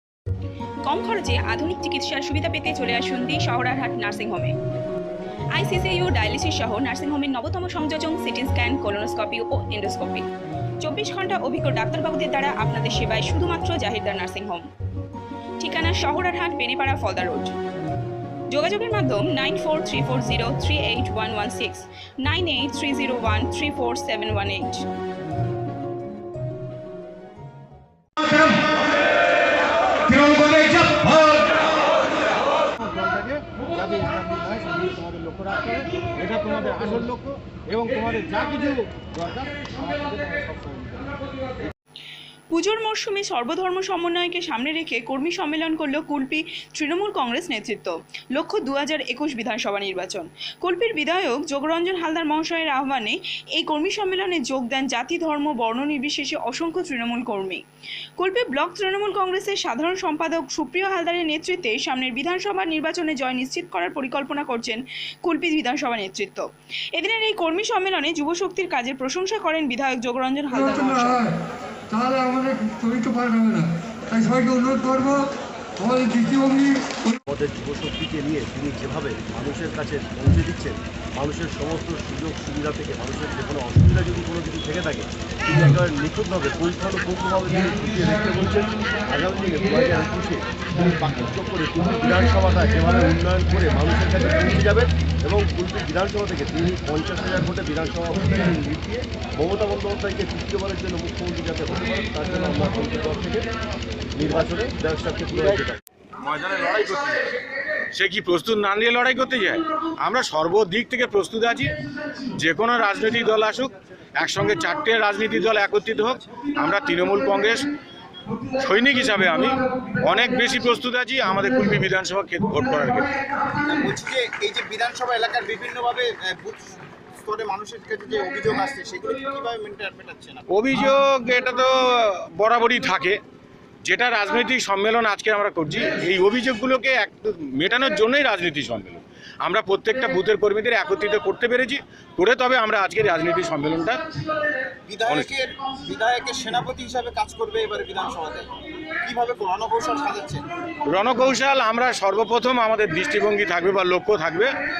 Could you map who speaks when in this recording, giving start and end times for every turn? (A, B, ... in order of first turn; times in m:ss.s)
0:00.9-0:04.5 A
0:05.6-0:10.3 A
0:10.8-0:14.7 A
0:15.6-0:17.6 A
0:18.5-0:24.8 A
0:30.4-0:31.0 B
0:32.9-0:33.4 B
0:34.1-0:39.5 B
0:42.5-0:57.6 A
0:58.2-1:11.4 A
1:12.0-1:15.2 C
1:12.0-1:12.7 A
1:15.9-1:16.6 C
1:17.3-1:43.5 D
1:44.2-1:45.8 D
1:46.2-1:47.2 B
1:47.9-1:51.7 B
1:52.3-1:57.7 B
1:58.6-2:03.1 B
2:03.6-2:10.4 E
2:10.5-2:13.2 B
2:13.8-2:24.0 B
2:24.9-2:30.4 E
2:30.8-2:34.5 B